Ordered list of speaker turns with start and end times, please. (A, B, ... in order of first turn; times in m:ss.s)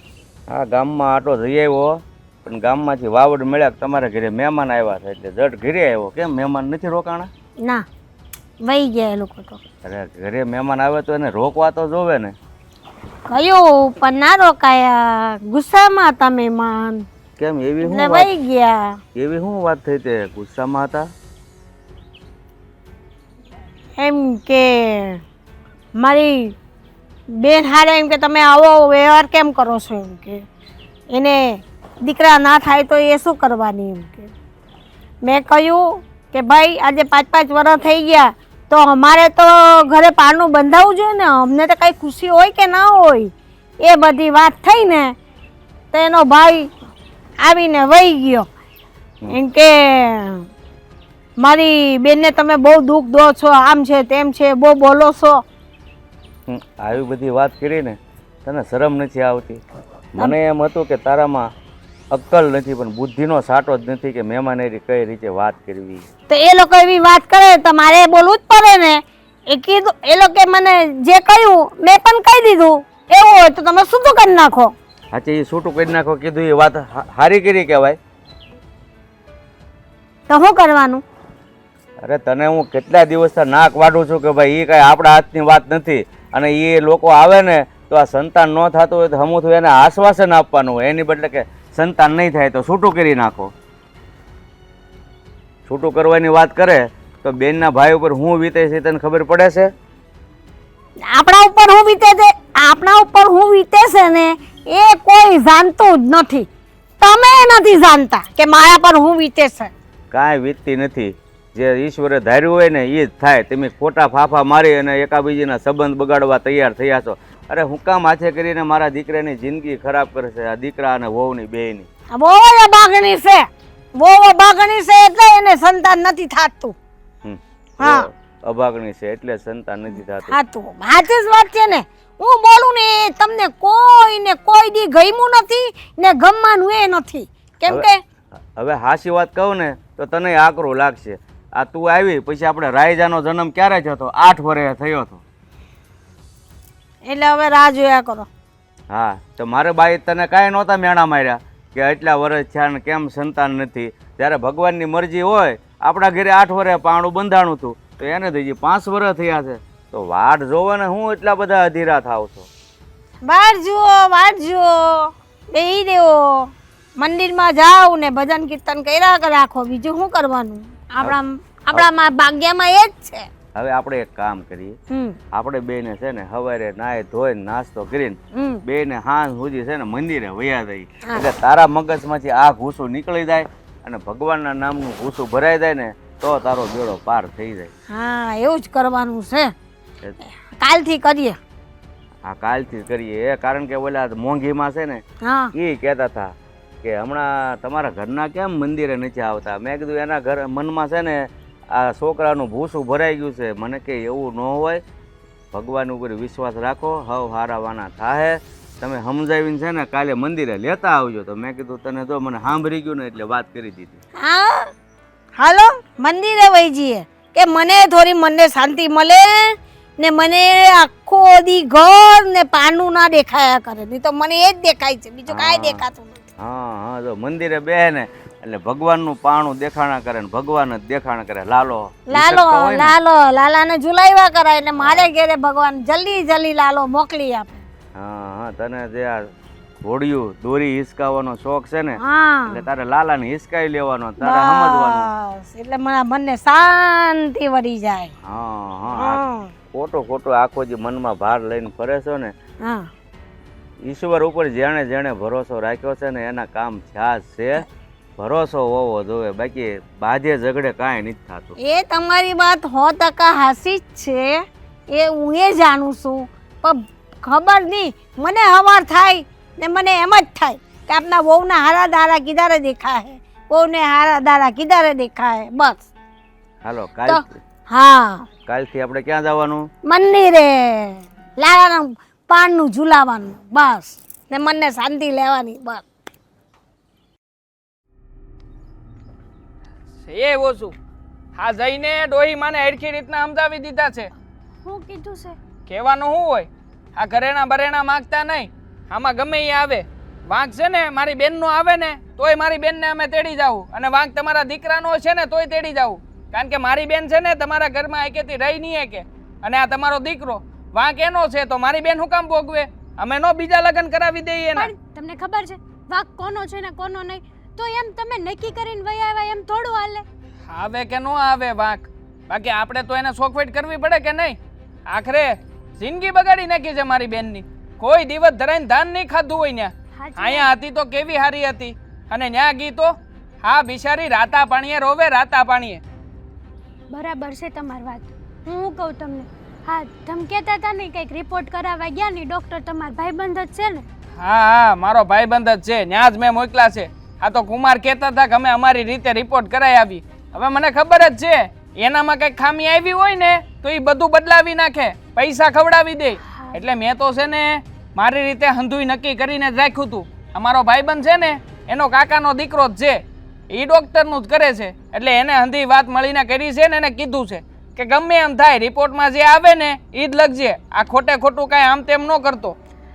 0:00.5-0:07.3 A
0:08.6-0:09.6 B
0:09.8-0:12.3 A
0:13.3-0:17.1 B
0:17.4-0:18.3 A
0:17.8-0:19.0 B
0:19.1-0:21.1 A
0:24.0-0:25.2 B
0:26.0-0:26.6 B
0:27.4-0:30.4 B
0:31.1-0:34.3 B
0:35.2-0:45.2 B
0:45.9-0:46.7 B
0:47.4-0:48.5 B
0:49.3-0:50.4 B
0:51.4-0:55.4 B
0:56.5-0:59.6 A
1:00.1-1:01.5 A
1:02.1-1:06.1 A
1:06.3-1:14.7 B
1:15.1-1:18.0 A
1:20.3-1:21.0 B
1:22.0-1:33.5 A
1:35.6-1:39.7 A
1:41.0-1:46.5 B
1:47.0-1:49.7 B
1:50.1-2:01.9 A
2:02.1-2:06.8 B
2:07.2-2:10.4 A
2:07.8-2:08.0 B
2:10.3-2:18.0 B
2:18.6-2:25.2 A
2:27.0-2:28.3 B
2:28.9-2:42.5 A
2:43.2-2:53.3 B
2:53.5-2:54.8 A
2:54.9-2:55.2 B
2:55.3-3:07.7 A
2:58.3-2:58.6 B
3:07.9-3:09.5 B
3:10.4-3:11.4 B
3:12.2-3:15.0 A
3:15.2-3:15.5 B
3:15.5-3:16.3 A
3:16.8-3:24.8 A
3:25.5-3:34.0 A
3:34.2-3:34.7 B
3:35.4-3:46.2 B
3:45.3-3:45.8 A
3:46.4-3:52.9 A
3:52.1-3:57.6 B
3:54.7-3:55.1 A
3:58.0-3:59.2 A
3:59.8-4:05.1 A
4:02.0-4:02.6 B
4:04.2-4:08.1 B
4:08.2-4:12.3 A
4:08.9-4:09.5 B
4:12.6-4:12.9 B
4:13.8-4:17.6 A
4:18.2-4:21.6 A
4:21.6-4:35.8 B
4:36.6-4:37.3 A
4:37.1-4:38.3 B
4:38.5-4:39.7 A
4:39.8-4:45.8 B
4:50.0-4:50.7 C
4:51.4-4:54.1 C
4:54.6-4:55.4 D
4:55.7-5:14.7 C
5:14.5-5:20.0 D
5:20.5-5:24.4 C
5:24.9-5:35.8 C
5:30.0-5:30.5 D
5:36.9-5:43.8 D
5:44.2-6:12.6 C